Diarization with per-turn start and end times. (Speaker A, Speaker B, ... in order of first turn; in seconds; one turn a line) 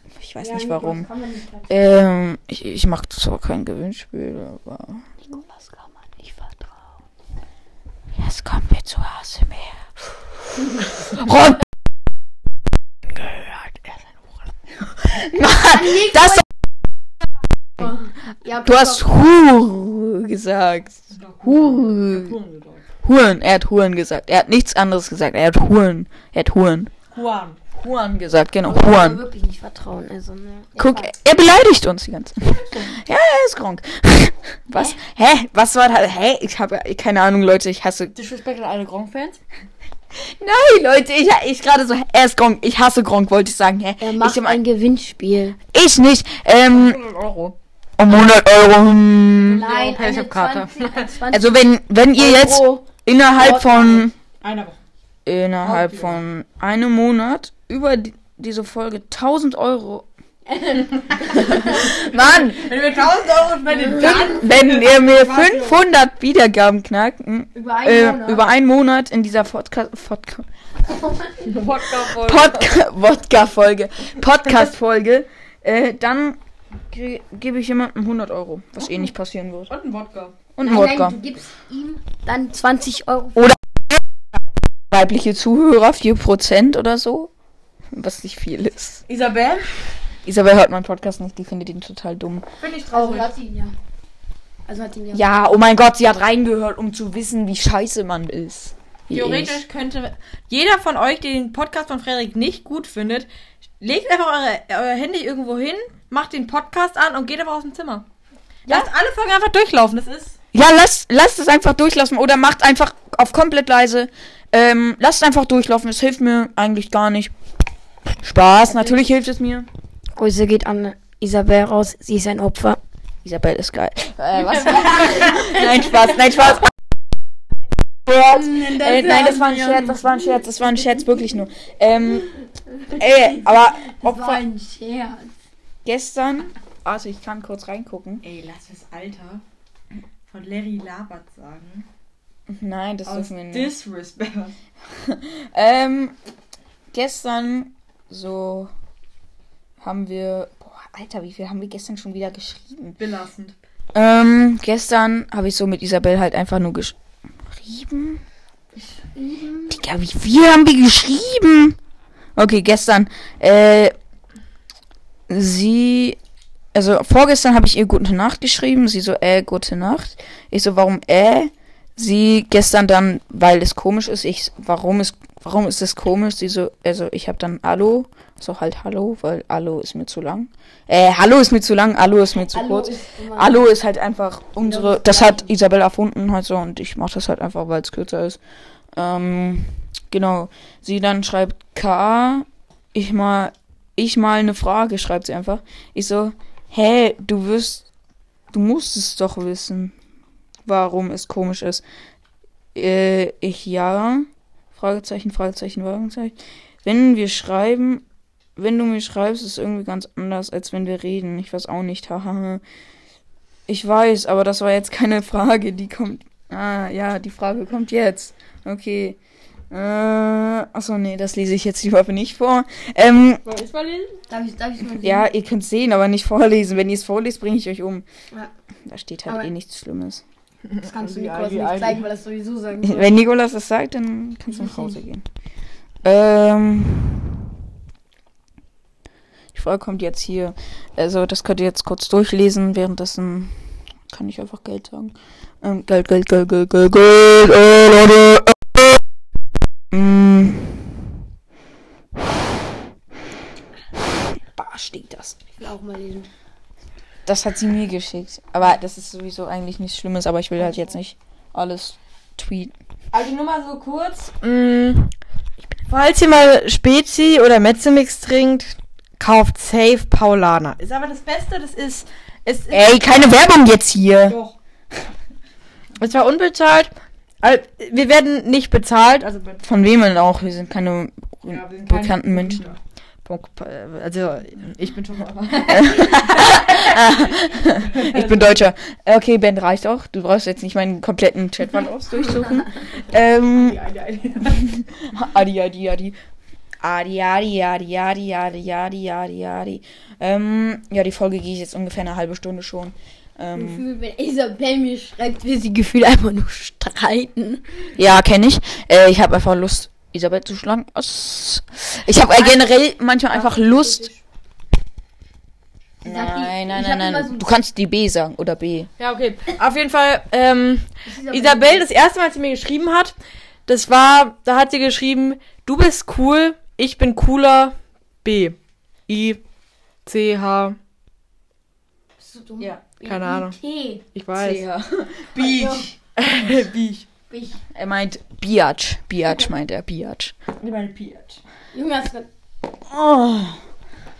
Speaker A: 0.1-1.1
Speaker B: 0.4-1.7
Speaker A: 1.7-5.2
Speaker B: 5.3-5.8
Speaker A: 8.1-9.9
Speaker A: 11.1-11.6
Speaker A: 13.2-13.6
Speaker A: 14.8-16.4
Speaker B: 15.7-16.4
Speaker B: 17.8-19.1
Speaker A: 18.6-22.4
Speaker C: 21.1-22.8
Speaker A: 23.0-26.9
Speaker C: 27.1-27.6
Speaker A: 27.7-29.2
Speaker B: 28.6-31.1
Speaker A: 30.8-38.1
Speaker C: 32.5-32.9
Speaker C: 38.1-39.4
Speaker A: 40.2-44.6
Speaker B: 44.0-45.6
Speaker A: 45.7-47.0
Speaker C: 46.7-47.5
Speaker A: 48.0-49.6
Speaker B: 49.5-51.6
Speaker C: 49.5-51.1
Speaker A: 51.3-54.1
Speaker B: 52.2-52.8
Speaker B: 53.4-54.1
Speaker C: 54.4-54.8
Speaker A: 55.2-60.1
Speaker C: 55.6-56.2
Speaker B: 60.5-62.0
Speaker C: 61.0-65.8
Speaker A: 61.3-62.7
Speaker B: 63.8-64.4
Speaker A: 63.9-70.5
Speaker B: 67.5-68.5
Speaker B: 70.9-71.8
Speaker C: 71.4-72.7
Speaker A: 72.1-76.4
Speaker A: 76.9-79.7
Speaker C: 79.7-80.3
Speaker A: 80.5-81.2
Speaker B: 80.6-83.5
Speaker A: 83.3-84.0
Speaker A: 84.9-87.3
Speaker A: 87.9-89.0
Speaker C: 89.1-90.0
Speaker A: 90.2-92.4
Speaker C: 92.6-93.3
Speaker B: 92.9-93.7
Speaker B: 94.7-95.3
Speaker A: 95.1-99.6
Speaker C: 99.1-103.3
Speaker C: 103.8-108.0
Speaker C: 108.7-110.4
Speaker A: 110.5-117.3
Speaker A: 118.2-119.7
Speaker B: 120.2-122.8
Speaker A: 123.2-126.7
Speaker B: 124.6-125.7
Speaker A: 128.1-132.3
Speaker B: 128.2-130.0
Speaker B: 132.9-135.3
Speaker A: 132.9-134.4
Speaker A: 135.8-138.2
Speaker C: 138.2-139.4
Speaker C: 140.3-141.8
Speaker A: 142.5-143.7
Speaker C: 143.0-144.6
Speaker A: 144.9-146.2
Speaker A: 146.9-148.7
Speaker A: 149.8-152.9
Speaker C: 153.0-153.6
Speaker A: 153.9-157.0
Speaker A: 157.5-158.2
Speaker B: 158.8-159.8
Speaker A: 159.7-161.8
Speaker A: 162.3-163.9
Speaker A: 165.3-166.2
Speaker A: 166.7-188.4
Speaker B: 182.5-183.6
Speaker B: 184.6-185.5
Speaker A: 188.9-197.9
Speaker A: 198.5-199.9
Speaker A: 200.7-201.8
Speaker A: 202.7-208.0
Speaker A: 208.6-212.6
Speaker A: 213.7-219.2
Speaker A: 219.7-223.4
Speaker C: 223.4-224.2
Speaker B: 224.3-225.3
Speaker A: 225.0-228.0
Speaker A: 228.8-230.2
Speaker C: 230.7-232.1
Speaker B: 230.8-233.2
Speaker A: 232.8-235.2
Speaker B: 234.5-234.8
Speaker A: 236.0-237.3
Speaker A: 239.5-249.0
Speaker A: 249.9-251.1
Speaker A: 254.5-255.4
Speaker B: 255.6-256.3
Speaker A: 257.2-262.7
Speaker C: 263.1-265.1
Speaker C: 265.9-273.0
Speaker A: 272.7-274.4
Speaker C: 274.3-274.6
Speaker C: 276.0-276.9
Speaker C: 277.4-279.6
Speaker A: 279.6-282.6
Speaker C: 281.5-287.3
Speaker A: 285.7-293.8
Speaker C: 287.9-288.6
Speaker C: 293.5-294.6
Speaker A: 294.5-296.1
Speaker A: 296.8-303.8
Speaker B: 303.5-307.9
Speaker A: 308.0-314.1
Speaker C: 312.4-312.7
Speaker C: 313.3-314.2
Speaker B: 316.0-317.5
Speaker A: 316.0-318.9
Speaker C: 319.0-323.1
Speaker B: 321.0-321.9
Speaker C: 323.7-328.6
Speaker C: 329.1-329.4
Speaker C: 330.1-330.8
Speaker B: 332.2-334.0
Speaker C: 332.9-333.5
Speaker C: 334.1-334.6
Speaker A: 334.3-335.9
Speaker B: 335.4-335.8
Speaker C: 336.1-337.0
Speaker B: 337.3-337.6
Speaker A: 337.7-340.3
Speaker C: 340.6-341.4
Speaker B: 341.7-342.3
Speaker A: 342.9-343.6